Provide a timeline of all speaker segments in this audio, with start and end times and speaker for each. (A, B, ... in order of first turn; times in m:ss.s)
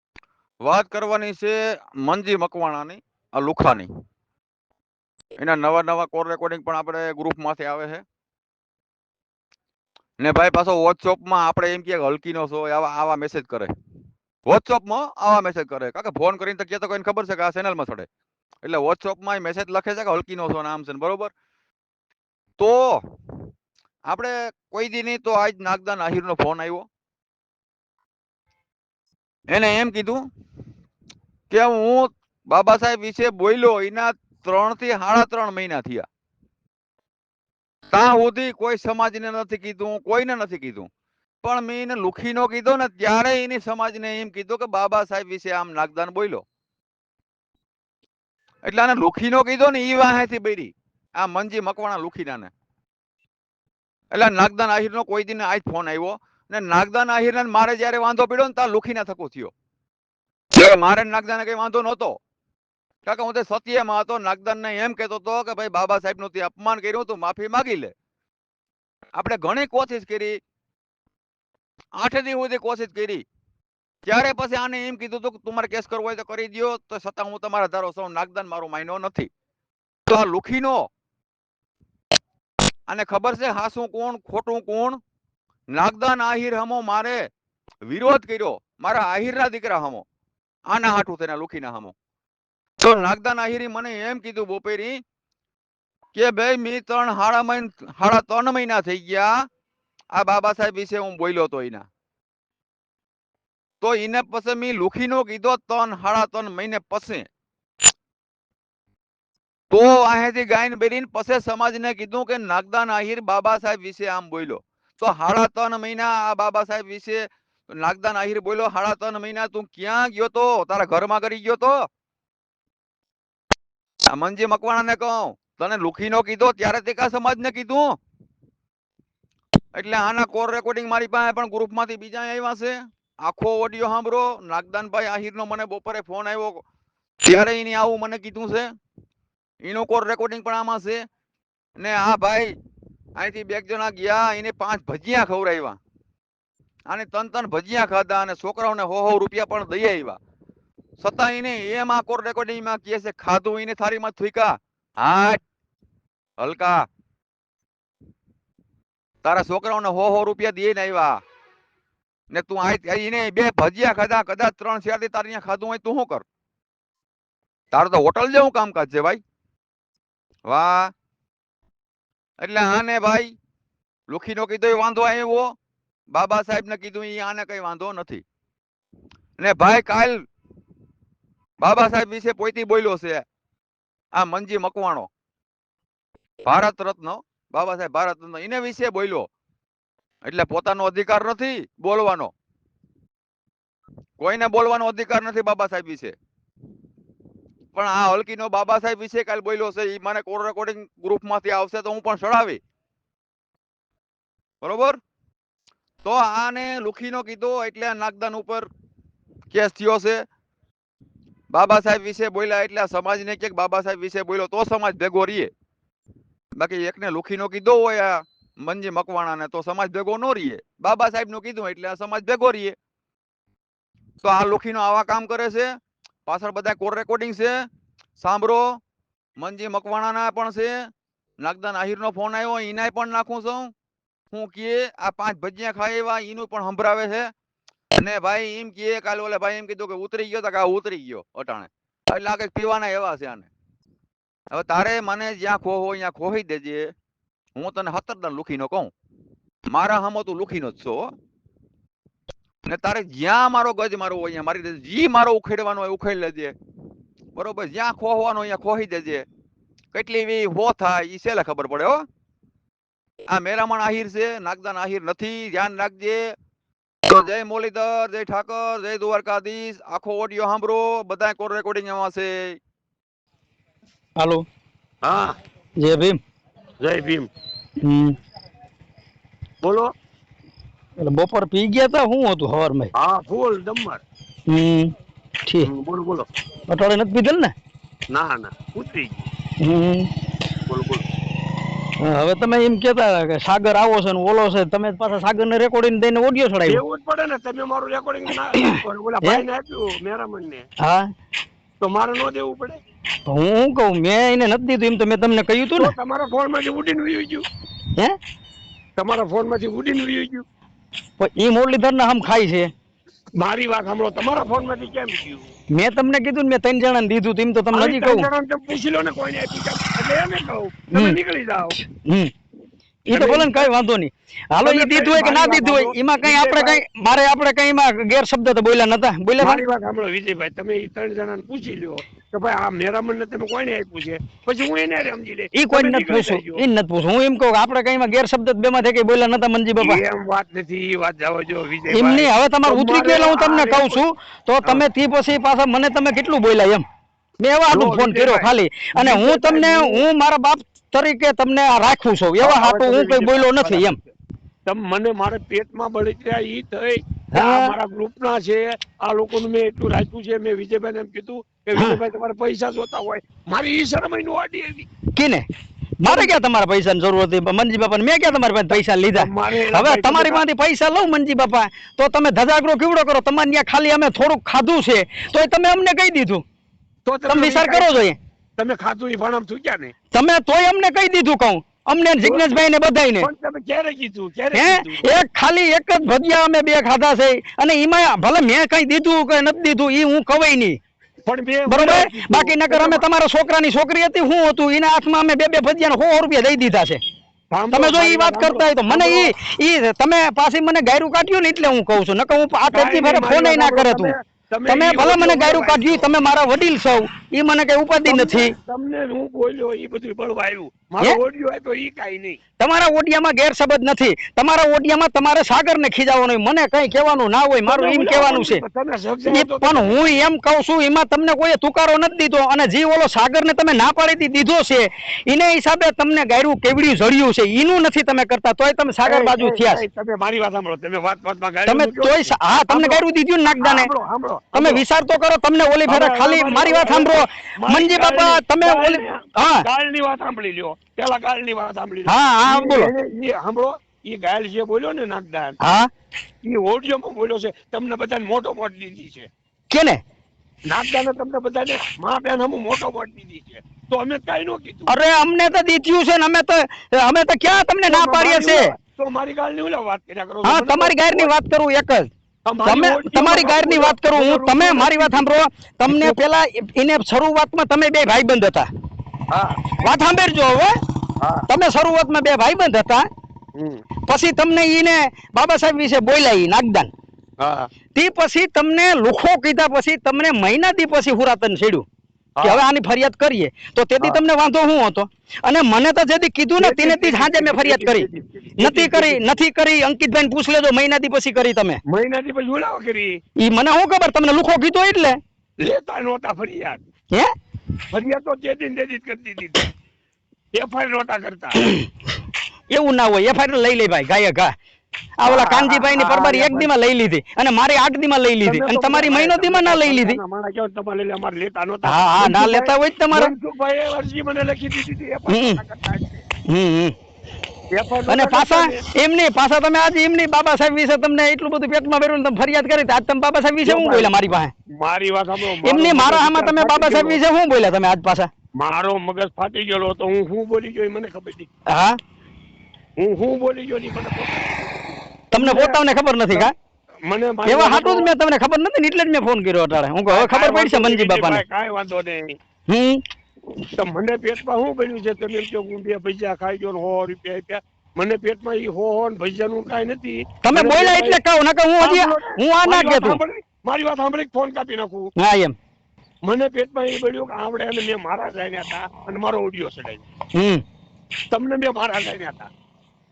0:00.6-0:03.9 A
0:05.4-0:08.0 A
0:10.2-0:13.7 A
0:14.5-0:18.1 A
0:18.6-0:21.3 A
0:22.6-0:23.0 A
0:24.1-0:26.9 A
0:29.5-0:30.2 A
0:31.5-0:36.1 A
0:37.9-0:40.9 A
0:41.4-0:46.4 A
0:48.6-0:52.5 A
0:54.1-0:59.5 A
1:00.5-1:02.2 A
1:03.0-1:07.9 A
1:09.2-1:10.4 A
1:12.0-1:13.2 A
1:14.0-1:19.3 A
1:20.1-1:20.9 A
1:22.9-1:25.0 A
1:25.7-1:27.3 A
1:27.8-1:30.0 A
1:30.7-1:31.9 A
1:32.8-1:35.0 A
1:36.1-1:39.3 A
1:40.2-1:41.9 A
1:43.8-1:47.3 A
1:49.7-2:01.9 A
2:04.1-2:08.0 A
2:09.7-2:16.6 A
2:17.2-2:18.7 A
2:19.6-2:21.0 A
2:21.8-2:22.6 A
2:23.2-2:25.8 A
2:26.9-2:30.2 A
2:31.0-2:35.4 A
2:36.4-2:36.8 A
2:39.2-2:41.2 A
2:42.3-2:46.2 A
2:47.7-2:49.2 A
2:50.5-2:50.9 A
2:52.4-2:53.3 A
2:54.1-2:55.6 A
2:56.1-2:58.2 A
2:59.4-3:00.2 A
3:01.6-3:03.2 A
3:04.2-3:05.1 A
3:06.4-3:09.3 A
3:10.2-3:12.3 A
3:14.2-3:16.2 A
3:17.7-3:22.6 A
3:24.6-3:25.0 A
3:26.0-3:28.7 A
3:29.5-3:30.2 A
3:31.5-3:35.5 A
3:36.6-3:42.8 A
3:44.2-3:45.8 A
3:46.3-3:48.8 A
3:49.4-3:50.9 A
3:51.4-3:53.7 A
3:54.3-3:57.3 A
3:58.0-4:03.5 A
4:04.5-4:06.9 A
4:07.6-4:08.9 A
4:09.7-4:11.1 A
4:12.7-4:16.6 A
4:17.4-4:19.3 A
4:19.9-4:22.0 A
4:23.3-4:26.4 A
4:27.1-4:32.6 A
4:34.2-4:34.4 B
4:35.0-4:35.4 C
4:35.8-4:36.2 B
4:36.8-4:37.3 C
4:37.8-4:38.2 B
4:39.6-4:39.9 C
4:41.0-4:42.9 B
4:43.0-4:44.0 C
4:44.5-4:44.9 B
4:45.6-4:46.3 C
4:46.7-4:47.5 B
4:48.1-4:49.3 C
4:49.6-4:50.1 B
4:50.7-4:51.0 C
4:52.0-4:56.8 B
4:56.7-5:00.7 C
4:58.6-4:59.4 B
5:00.8-5:01.1 B
5:01.8-5:02.8 C
5:03.3-5:05.9 B
5:05.8-5:07.5 C
5:09.0-5:10.4 C
5:11.2-5:12.7 B
5:13.4-5:15.5 C
5:15.7-5:18.3 B
5:17.7-5:21.8 C
5:20.9-5:21.2 B
5:22.0-5:22.3 B
5:23.1-5:29.6 B
5:23.1-5:23.7 C
5:24.6-5:26.8 C
5:29.4-5:36.6 C
5:35.5-5:40.0 B
5:39.8-5:44.0 C
5:41.9-5:46.8 B
5:47.4-5:54.0 B
5:47.7-5:50.0 C
5:52.4-5:54.0 C
5:54.7-6:04.9 C
5:57.3-5:57.8 B
6:05.1-6:05.4 B
6:06.0-6:16.4 B
6:06.1-6:06.3 C
6:08.7-6:10.4 C
6:17.0-6:18.0 C
6:17.3-6:18.2 B
6:18.6-6:19.9 C
6:20.1-6:23.3 B
6:22.2-6:22.6 C
6:23.2-6:25.1 C
6:24.5-6:30.8 B
6:31.2-6:33.0 C
6:31.7-6:37.0 B
6:37.5-6:39.3 C
6:37.7-6:44.2 B
6:42.7-6:46.1 C
6:44.7-6:48.5 B
6:48.0-6:52.4 C
6:52.6-6:58.6 B
6:57.7-7:00.0 C
6:59.3-7:09.8 B
7:09.1-7:14.8 C
7:11.7-7:13.9 B
7:14.5-7:19.7 B
7:15.9-7:25.6 C
7:22.1-7:22.9 B
7:25.6-7:25.9 B
7:26.4-7:29.3 C
7:29.7-7:30.0 B
7:30.7-7:35.0 C
7:34.9-7:38.7 B
7:37.9-7:41.3 C
7:40.4-7:42.1 B
7:42.4-7:45.3 C
7:42.6-7:48.7 B
7:45.9-7:46.2 C
7:49.3-7:49.7 C
7:49.8-7:50.8 B
7:51.2-7:51.4 C
7:51.5-7:53.1 B
7:53.6-7:53.8 C
7:54.1-7:56.9 B
7:57.4-7:57.7 C
7:58.0-8:01.9 B
8:02.4-8:02.6 C
8:02.4-8:11.8 B
8:06.6-8:09.4 C
8:11.9-8:13.2 C
8:13.4-8:15.2 B
8:15.6-8:16.8 C
8:17.9-8:19.7 C
8:20.5-8:21.6 C
8:21.6-8:21.9 B
8:22.7-8:24.5 B
8:25.2-8:30.2 B
8:25.2-8:26.7 C
8:28.4-8:36.2 C
8:31.8-8:33.3 B
8:35.3-8:35.6 B
8:36.5-8:37.0 B
8:37.7-8:38.8 C
8:38.1-8:44.5 B
8:43.6-8:44.2 C
8:44.7-8:47.2 C
8:45.6-8:48.3 B
8:48.6-8:51.5 C
8:51.7-8:52.0 B
8:53.0-8:56.5 C
8:55.3-8:56.5 B
8:57.1-8:58.1 C
8:57.4-9:01.4 B
9:00.1-9:02.4 C
9:02.7-9:03.0 B
9:03.7-9:11.2 C
9:10.4-9:13.2 B
9:11.8-9:15.1 C
9:15.2-9:15.6 B
9:16.2-9:20.0 C
9:20.4-9:20.6 B
9:21.3-9:22.5 C